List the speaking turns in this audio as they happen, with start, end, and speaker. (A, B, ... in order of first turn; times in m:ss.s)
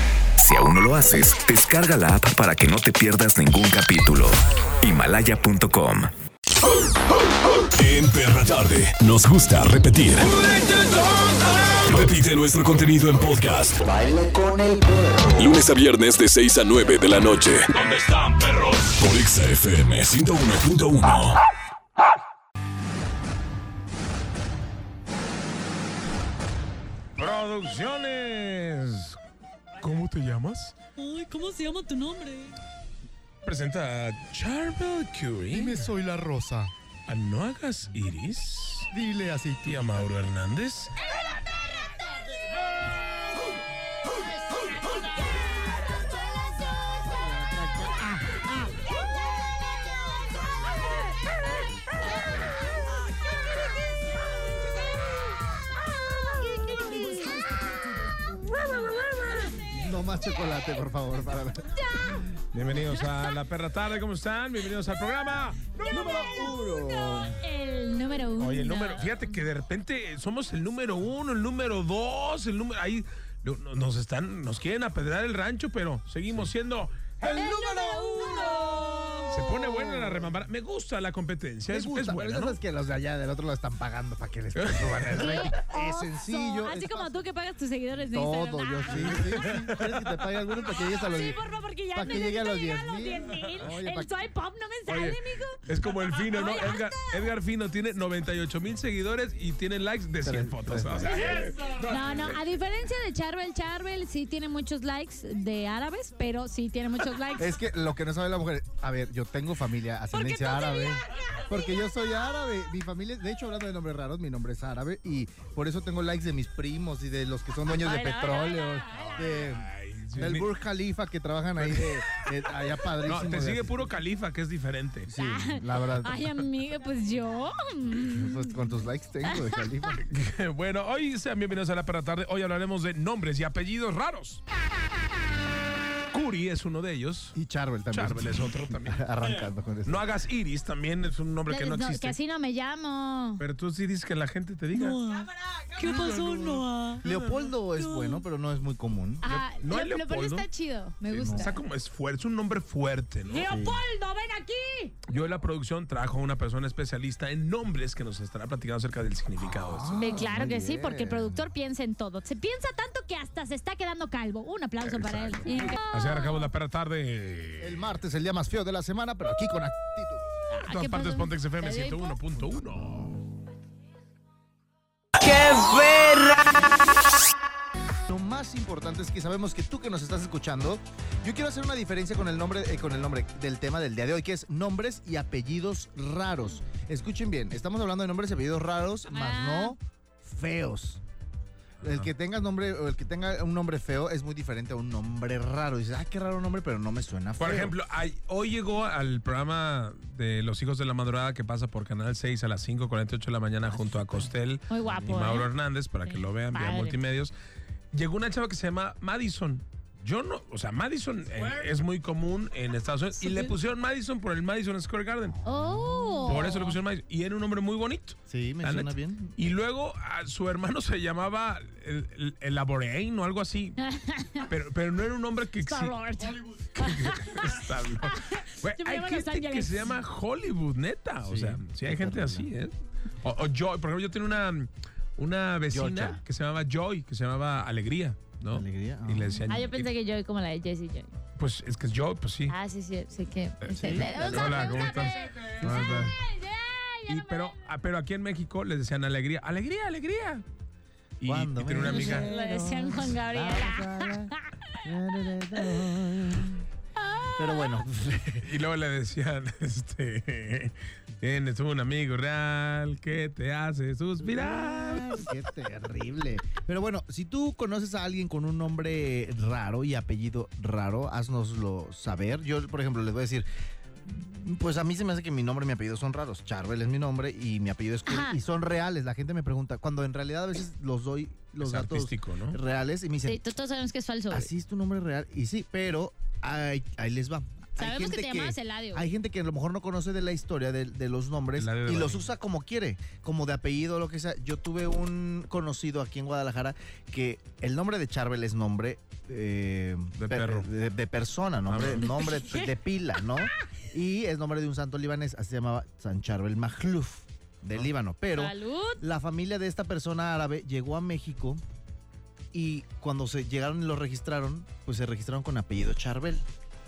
0:00.4-0:06.1 A
0:07.6-0:11.0 B
0:11.6-0:13.9 B
0:14.0-0:15.2 A
0:15.4-0:21.4 B
0:27.2-0:29.2 C
0:29.8-0:30.8 C
0:31.0-0:32.6 D
0:33.4-0:35.9 C
0:35.5-0:36.7 E
0:37.1-0:38.9 C
0:38.9-0:40.1 E
0:39.6-0:40.9 C
0:45.8-0:48.4 E
0:51.5-0:55.3 D
0:56.0-0:59.7 D
0:56.5-0:57.6 E
0:59.7-1:02.2 E
1:01.7-1:02.2 D
1:02.5-1:05.8 C
1:02.9-1:03.4 D
1:05.8-1:07.4 E
1:05.8-1:09.4 D
1:08.4-1:17.1 C
1:17.2-1:20.4 E
1:17.2-1:19.4 D
1:19.3-1:22.6 C
1:21.7-1:27.2 E
1:24.6-1:25.4 C
1:25.2-1:29.5 D
1:28.1-1:31.4 E
1:28.9-1:30.2 C
1:30.6-1:37.3 D
1:31.9-1:34.1 E
1:34.9-1:42.4 C
1:40.2-1:41.5 E
1:41.7-1:47.5 D
1:47.4-2:03.9 E
1:50.1-1:51.5 D
1:57.8-1:59.5 D
1:59.4-2:00.5 C
2:01.6-2:02.3 C
2:03.0-2:05.1 C
2:05.1-2:06.3 E
2:05.2-2:08.8 D
2:08.1-2:10.0 E
2:09.3-2:09.9 D
2:10.0-2:14.4 C
2:16.1-2:17.4 C
2:17.4-2:20.1 E
2:17.9-2:22.2 C
2:21.5-2:23.4 D
2:23.4-2:25.0 C
2:24.7-2:27.0 D
2:25.8-2:27.5 C
2:27.0-2:29.2 E
2:27.8-2:28.2 D
2:29.2-2:31.6 D
2:29.2-2:30.5 C
2:31.1-2:33.5 C
2:31.2-2:31.5 E
2:33.3-2:35.0 D
2:33.4-2:33.8 E
2:35.1-2:40.2 C
2:39.4-2:41.5 E
2:40.0-2:46.5 D
2:44.8-2:47.8 C
2:47.6-2:50.2 E
2:50.5-2:52.2 D
2:50.6-2:53.2 C
2:58.1-3:11.0 E
3:09.1-3:09.8 D
3:11.8-3:12.1 C
3:11.8-3:17.8 E
3:17.4-3:27.3 C
3:23.8-3:24.3 E
3:24.7-3:25.5 D
3:24.8-3:25.2 E
3:26.0-3:27.0 D
3:27.9-3:35.4 C
3:33.2-3:33.5 D
3:35.4-3:36.6 E
3:35.5-3:36.7 D
3:36.3-3:43.8 C
3:38.3-3:39.4 E
3:43.8-3:44.5 D
3:44.5-3:46.0 C
3:45.6-3:49.9 D
3:46.8-3:59.9 C
3:51.2-3:52.5 E
3:55.7-3:56.2 E
3:58.5-3:59.5 E
3:59.5-4:01.2 D
4:01.4-4:02.5 C
4:02.5-4:07.6 D
4:03.6-4:06.2 C
4:03.7-4:06.2 E
4:07.1-4:10.4 C
4:11.2-4:12.3 C
4:11.2-4:16.6 E
4:11.8-4:14.8 D
4:15.6-4:15.8 D
4:17.0-4:17.8 D
4:17.3-4:18.5 E
4:18.4-4:25.3 C
4:24.2-4:33.5 E
4:34.0-4:43.4 E
4:38.1-4:38.4 D
4:41.6-4:42.6 C
4:43.2-4:44.5 D
4:44.3-5:11.6 E
4:47.8-4:49.0 D
4:51.6-4:52.3 C
5:00.2-5:00.7 C
5:01.7-5:02.2 C
5:02.2-5:02.7 D
5:08.3-5:09.0 D
5:12.5-5:16.4 E